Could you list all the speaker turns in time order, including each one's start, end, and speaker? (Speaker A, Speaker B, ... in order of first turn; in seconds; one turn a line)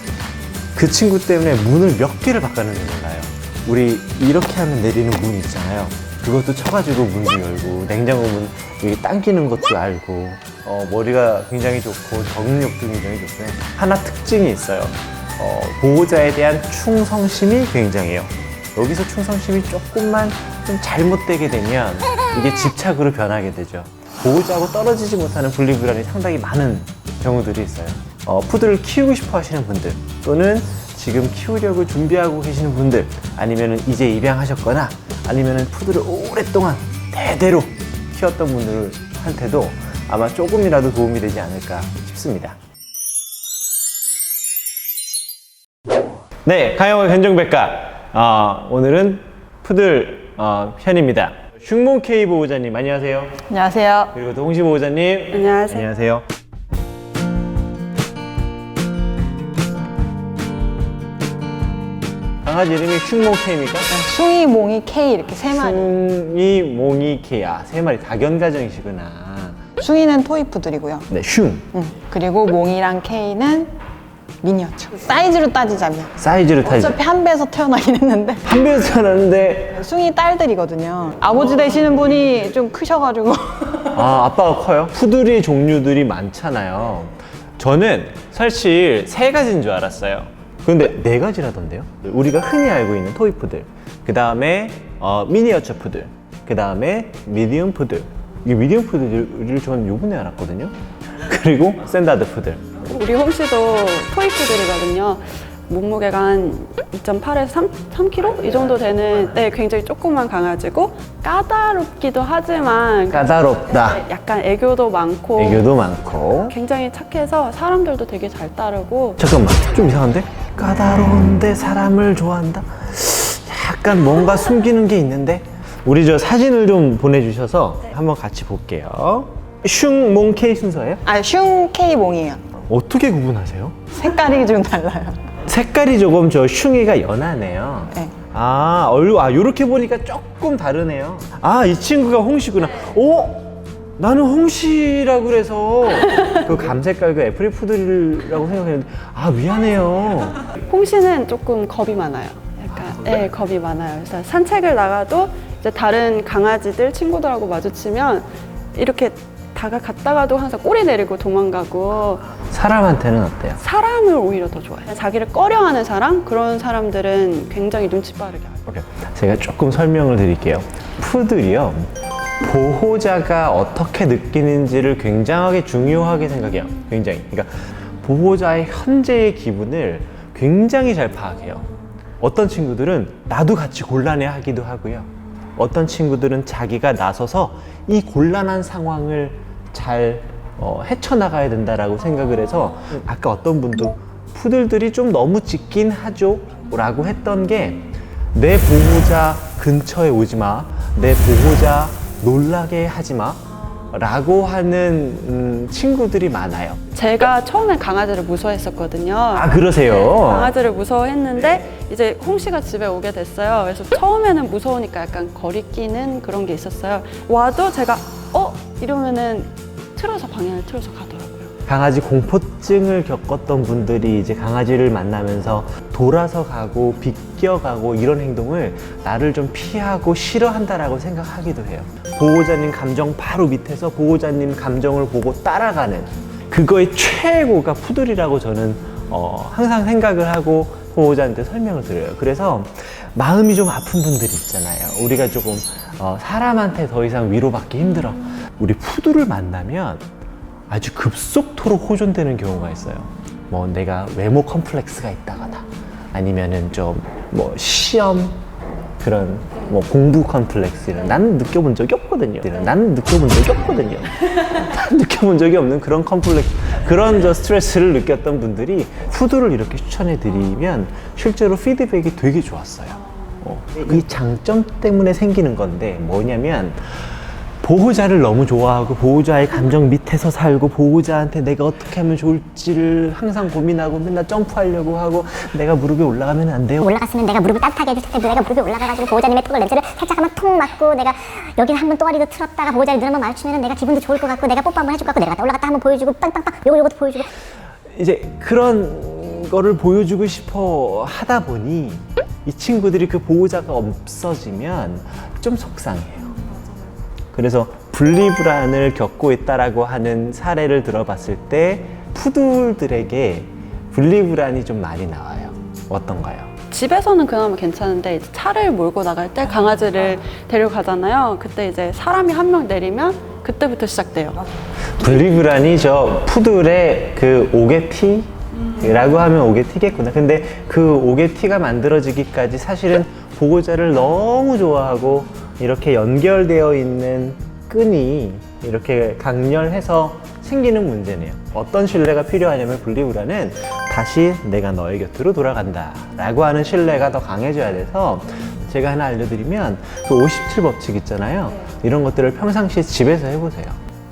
Speaker A: 0.8-42.6
Speaker A: 46.5-53.4
Speaker B: 53.5-54.1
Speaker A: 54.1-56.3
Speaker C: 55.3-55.9
Speaker A: 62.5-63.9
Speaker B: 63.9-65.9
Speaker A: 65.5-69.6
Speaker B: 69.8-71.1
Speaker A: 71.1-71.7
Speaker B: 71.7-73.7
Speaker B: 74.4-78.5
Speaker A: 76.2-77.0
Speaker A: 78.5-79.8
Speaker B: 79.7-83.9
Speaker A: 83.9-102.7
Speaker C: 102.8-115.7
Speaker A: 113.1-114.0
Speaker A: 115.4-116.5
Speaker C: 116.5-119.2
Speaker A: 119.2-131.0
Speaker B: 131.1-132.4
Speaker A: 132.7-133.8
Speaker B: 133.9-135.2
Speaker A: 135.5-150.5
Speaker C: 150.7-162.3
Speaker A: 162.3-163.6
Speaker C: 163.6-168.6
Speaker A: 168.7-181.7
Speaker A: 182.2-206.8
Speaker C: 206.9-221.5
Speaker A: 209.3-210.6
Speaker A: 221.7-250.1
Speaker A: 250.7-258.4
Speaker A: 259.0-277.0
Speaker A: 277.6-286.9
Speaker D: 286.8-297.3
Speaker A: 297.9-306.4
Speaker A: 307.3-316.5
Speaker C: 316.7-324.4
Speaker A: 325.0-353.8